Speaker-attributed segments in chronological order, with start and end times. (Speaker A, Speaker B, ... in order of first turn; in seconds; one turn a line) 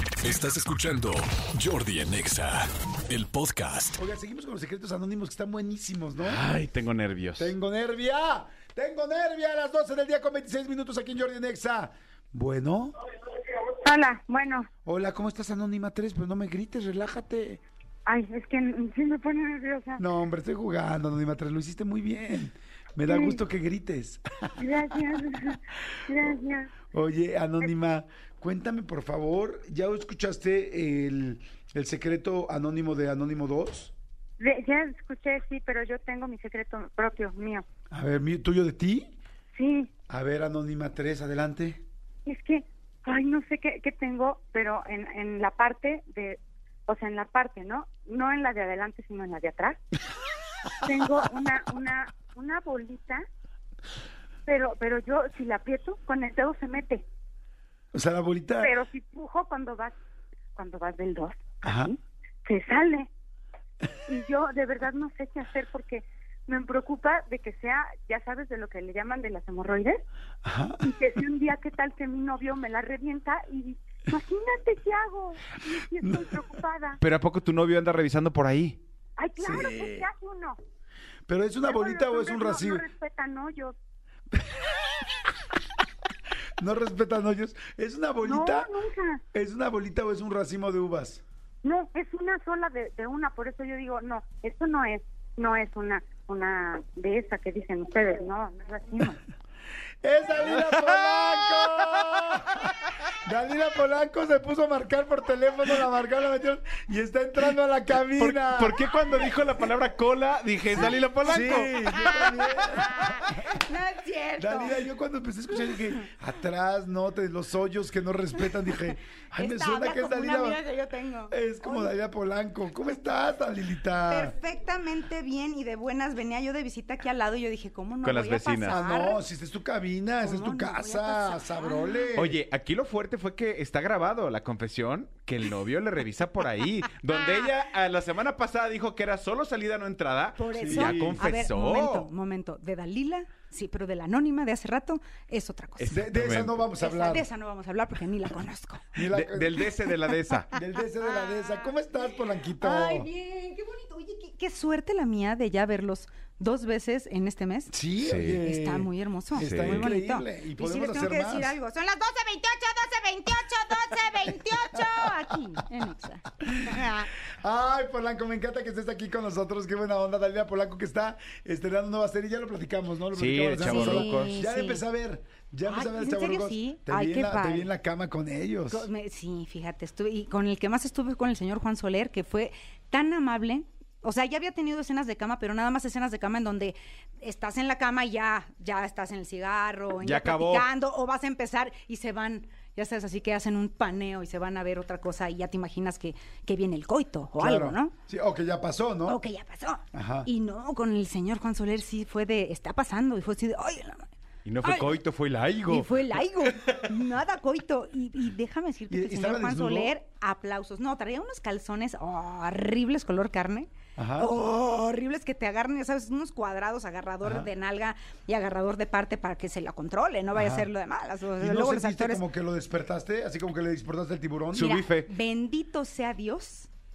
Speaker A: 0.2-4.0
Speaker B: 4.0-6.4
Speaker C: 6.2-7.5
Speaker B: 7.4-12.9
Speaker D: 13.5-14.6
Speaker E: 13.9-14.6
Speaker B: 14.8-17.6
Speaker D: 18.1-20.0
Speaker B: 20.0-24.6
Speaker D: 24.6-26.7
Speaker B: 26.9-33.9
Speaker D: 34.4-37.6
Speaker B: 37.9-39.2
Speaker D: 39.6-39.9
Speaker B: 40.1-41.8
Speaker D: 42.3-49.8
Speaker D: 50.9-53.2
Speaker D: 54.5-57.0
Speaker B: 57.9-58.8
Speaker D: 58.6-59.9
Speaker D: 60.6-61.9
Speaker B: 61.6-61.9
Speaker D: 62.5-63.1
Speaker D: 64.1-70.0
Speaker B: 70.5-70.9
Speaker D: 70.8-77.0
Speaker B: 76.0-76.6
Speaker C: 77.0-78.8
Speaker D: 79.2-80.6
Speaker B: 79.4-80.1
Speaker B: 81.3-82.9
Speaker D: 81.7-83.8
Speaker B: 84.4-84.7
Speaker B: 86.6-88.7
Speaker D: 88.3-89.2
Speaker B: 89.3-91.2
Speaker D: 91.6-99.2
Speaker B: 100.0-108.9
Speaker C: 100.7-101.0
Speaker C: 108.2-112.3
Speaker B: 110.7-113.6
Speaker E: 111.4-114.8
Speaker B: 114.4-120.6
Speaker E: 118.7-121.9
Speaker B: 121.3-124.3
Speaker E: 124.1-129.2
Speaker C: 128.0-128.8
Speaker B: 128.7-132.4
Speaker E: 130.2-132.1
Speaker C: 132.1-142.1
Speaker E: 140.4-145.9
Speaker B: 140.6-141.2
Speaker C: 145.8-146.7
Speaker B: 145.9-147.3
Speaker E: 146.8-148.9
Speaker B: 148.9-149.7
Speaker C: 149.0-150.6
Speaker B: 150.5-153.1
Speaker E: 151.1-151.7
Speaker E: 152.6-157.8
Speaker B: 157.7-161.6
Speaker C: 158.0-158.4
Speaker E: 158.3-167.1
Speaker C: 159.4-159.9
Speaker B: 164.3-165.1
Speaker B: 166.4-178.9
Speaker C: 173.1-174.4
Speaker E: 173.6-174.8
Speaker E: 175.7-177.7
Speaker E: 178.7-197.9
Speaker C: 190.0-190.7
Speaker B: 197.4-199.2
Speaker E: 199.1-204.1
Speaker B: 199.9-200.3
Speaker C: 204.5-206.2
Speaker E: 204.6-205.0
Speaker E: 205.7-222.2
Speaker B: 208.9-209.9
Speaker B: 214.0-214.3
Speaker B: 217.2-217.5
Speaker B: 220.3-220.7
Speaker B: 221.4-224.8
Speaker C: 224.5-225.1
Speaker E: 224.6-226.7